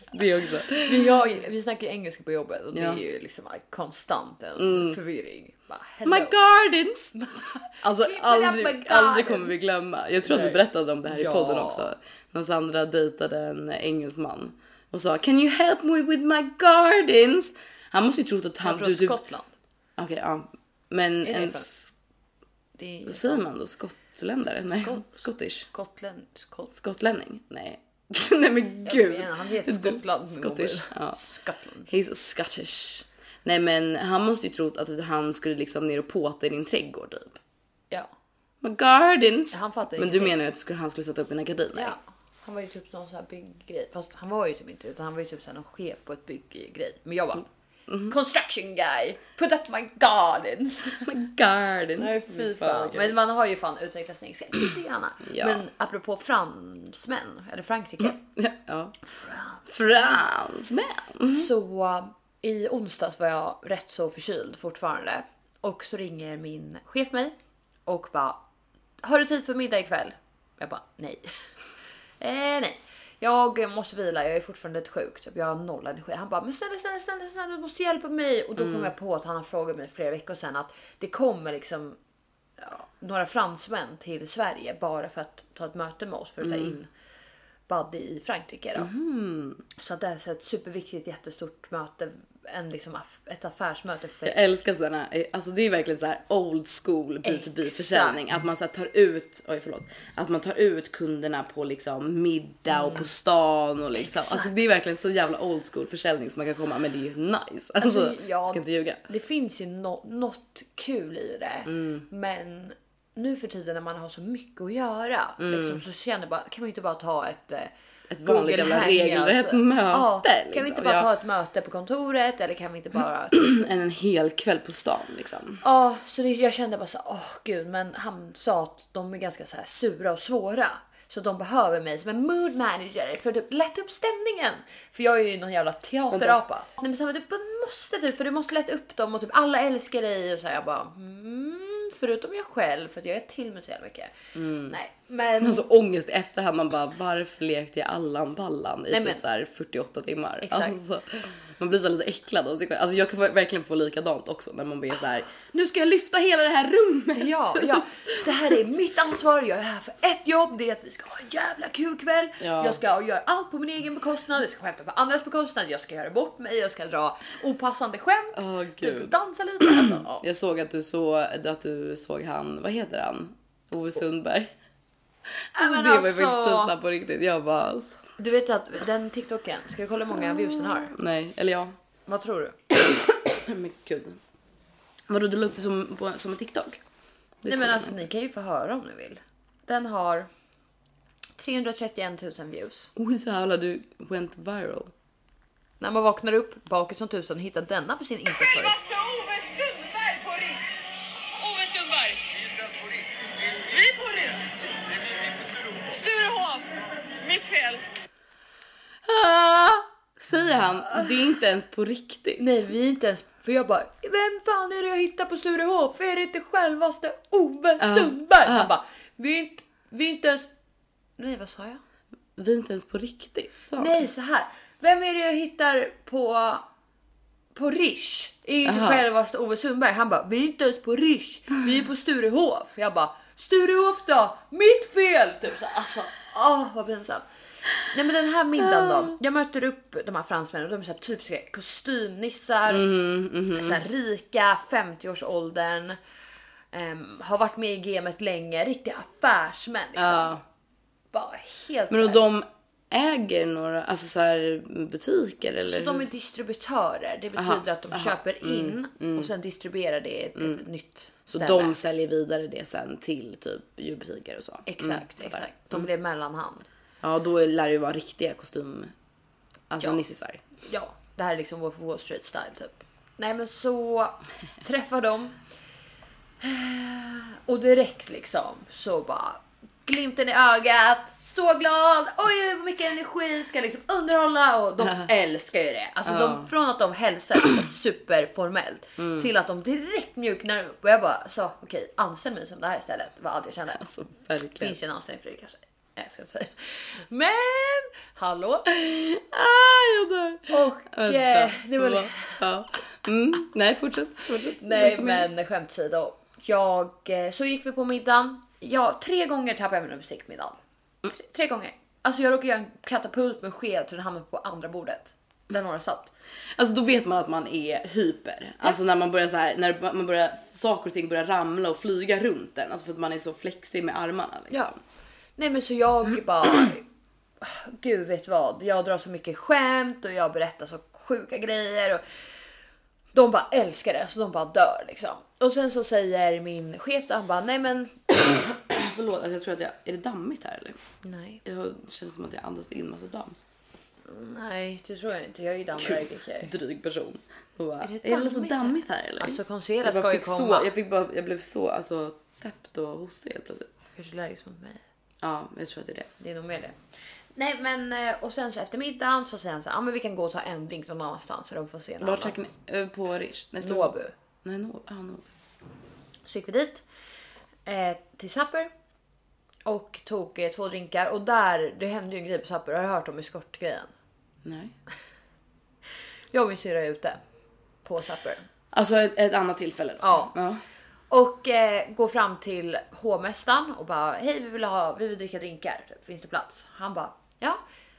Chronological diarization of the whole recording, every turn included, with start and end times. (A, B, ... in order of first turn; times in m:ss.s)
0:00.1-0:01.2 A
0:00.7-0:06.3 B
0:02.7-0:03.0 A
0:04.6-0:05.0 A
0:06.0-0:07.2 A
0:07.1-0:09.6 B
0:07.8-0:19.2 A
0:10.2-0:11.9 B
0:18.6-0:19.5 B
0:20.0-0:21.9 A
0:21.2-0:21.7 B
0:22.8-0:23.4 B
0:23.0-0:25.7 A
0:24.6-0:26.7 B
0:26.7-0:31.2 A
0:28.8-0:31.9 B
0:31.9-0:37.4 A
0:38.6-0:41.9 A
0:39.5-0:40.4 B
0:41.7-0:47.4 B
0:47.9-0:48.1 A
0:48.1-0:51.1 B
0:51.0-0:53.1 A
0:52.0-0:58.2 B
0:55.2-0:55.6 A
0:58.0-0:59.0 A
0:59.2-0:59.7 B
0:59.7-1:01.5 A
1:01.3-1:07.3 B
1:07.8-1:08.4 B
1:09.0-1:11.2 B
1:12.2-1:22.0 B
1:18.6-1:18.9 A
1:22.6-1:26.9 B
1:26.4-1:26.8 A
1:27.7-1:28.9 B
1:28.8-1:29.6 A
1:29.8-1:34.4 B
1:34.2-1:49.1 A
1:37.2-1:38.2 B
1:42.7-1:43.1 B
1:43.9-1:44.5 B
1:47.8-1:57.7 B
1:51.6-1:52.0 A
1:55.4-1:55.8 A
1:58.1-2:01.1 A
1:58.2-2:03.7 B
2:03.3-2:05.6 A
2:05.6-2:24.1 B
2:16.1-2:16.4 A
2:24.3-2:24.8 A
2:24.7-2:25.6 B
2:25.4-2:38.6 A
2:28.9-2:29.2 B
2:30.4-2:30.8 B
2:37.1-2:50.2 B
2:42.4-2:42.8 A
2:48.3-2:54.5 A
2:55.5-2:57.9 A
2:55.5-2:56.7 B
2:58.2-3:00.9 B
3:00.9-3:01.7 A
3:02.1-3:02.6 B
3:02.8-3:04.2 A
3:05.1-3:06.8 A
3:07.4-3:08.0 A
3:07.5-3:10.3 B
3:11.4-3:12.9 B
3:13.0-3:14.9 A
3:15.8-3:18.8 B
3:18.3-3:20.7 C
3:21.4-3:27.8 C
3:29.0-3:32.6 A
3:32.4-3:40.5 B
3:37.8-3:38.7 A
3:41.2-3:41.8 B
3:42.4-3:44.0 A
3:43.8-3:46.6 B
3:47.5-3:57.2 B
3:48.6-3:49.0 A
3:57.8-4:02.9 B
3:58.6-3:59.1 A
4:02.7-4:03.8 A
4:03.5-4:06.0 B
4:06.7-4:10.4 B
4:10.0-4:10.4 A
4:11.1-4:12.2 B
4:11.9-4:16.0 A
4:15.6-4:21.8 B
4:17.4-4:19.3 A
4:20.4-4:20.6 A
4:21.3-4:25.9 A
4:24.7-4:26.7 B
4:27.0-4:28.9 A
4:29.7-4:30.4 A
4:30.6-4:35.4 B
4:36.4-4:53.9 B
4:44.8-4:45.1 A
4:46.0-4:46.5 A
4:49.0-4:49.3 A
4:53.8-4:54.8 A
4:54.6-4:58.7 B
4:58.7-5:05.3 A
5:00.5-5:02.4 B
5:04.6-5:16.1 B
5:16.5-5:24.8 A
5:25.4-5:26.8 B
5:27.4-5:32.0 B
5:33.1-5:38.0 B
5:38.2-5:40.8 A
5:41.0-5:41.4 B
5:41.4-5:43.4 A
5:44.0-5:46.5 B
5:45.8-5:53.7 A
5:47.8-5:50.7 B
5:53.9-5:54.8 B
5:55.2-5:56.1 A
5:56.2-5:56.8 B
5:57.4-6:02.4 B
6:02.0-6:05.3 A
6:03.6-6:04.1 B
6:06.3-6:06.8 B
6:07.6-6:08.7 B
6:09.6-6:13.9 B
6:14.4-6:14.7 A
6:16.3-6:17.2 B
6:17.8-6:18.4 B
6:18.7-6:20.6 A
6:20.0-6:20.3 B
6:21.1-6:27.6 B